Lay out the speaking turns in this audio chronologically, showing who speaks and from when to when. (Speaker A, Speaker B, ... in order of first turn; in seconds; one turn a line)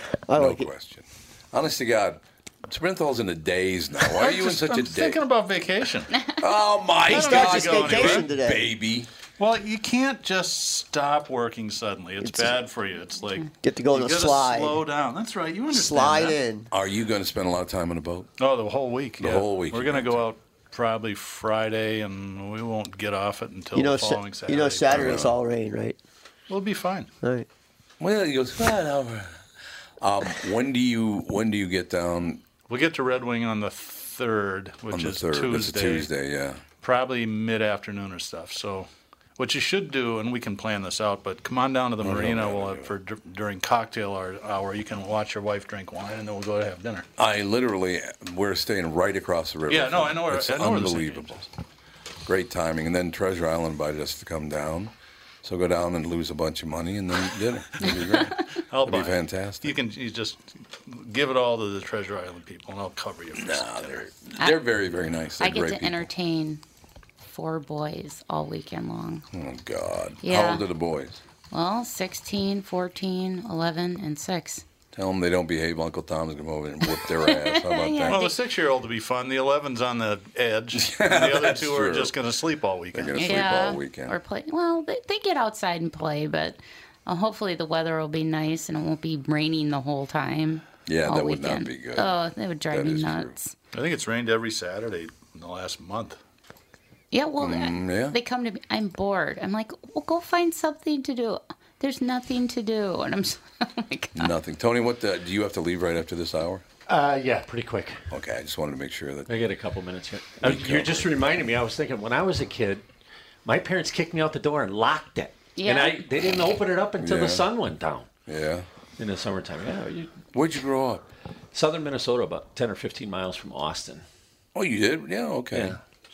Speaker A: 0.3-0.7
Speaker B: 0.3-5.2
Speaker C: 4.1-6.1
Speaker B: 6.4-9.1
Speaker A: 7.1-8.7
Speaker C: 7.1-8.3
Speaker C: 9.4-16.4
Speaker A: 12.2-12.6
Speaker A: 13.6-14.8
Speaker A: 15.7-16.7
Speaker B: 16.7-18.3
Speaker C: 18.4-25.2
Speaker B: 19.2-20.2
Speaker A: 23.8-26.0
Speaker B: 24.9-25.3
Speaker C: 26.5-27.1
Speaker A: 27.2-27.5
Speaker B: 28.0-29.4
Speaker B: 30.0-32.4
Speaker C: 32.7-36.1
Speaker B: 34.9-36.6
Speaker C: 36.8-47.1
Speaker B: 42.0-42.9
Speaker B: 47.2-51.5
Speaker C: 49.7-51.3
Speaker B: 52.3-54.9
Speaker B: 55.4-59.8
Speaker C: 57.8-64.3
Speaker B: 63.4-66.1
Speaker D: 65.4-66.6
Speaker D: 67.3-69.2
Speaker B: 69.3-71.2
Speaker D: 70.2-70.7
Speaker D: 71.5-74.6
Speaker B: 74.9-78.3
Speaker D: 77.0-78.4
Speaker C: 78.1-83.5
Speaker B: 80.7-82.1
Speaker B: 82.9-84.2
Speaker D: 83.2-93.5
Speaker B: 90.9-92.1
Speaker B: 92.7-93.4
Speaker C: 93.7-96.2
Speaker D: 97.1-104.3
Speaker B: 97.4-98.2
Speaker B: 104.1-106.6
Speaker E: 106.9-108.0
Speaker B: 108.1-109.3
Speaker E: 109.3-112.9
Speaker B: 110.4-111.2
Speaker E: 113.5-118.1
Speaker D: 115.6-116.0
Speaker B: 117.0-117.5
Speaker B: 118.3-118.7
Speaker E: 119.0-120.2
Speaker B: 120.3-121.0
Speaker E: 121.5-124.0
Speaker B: 124.5-125.8
Speaker E: 125.5-125.8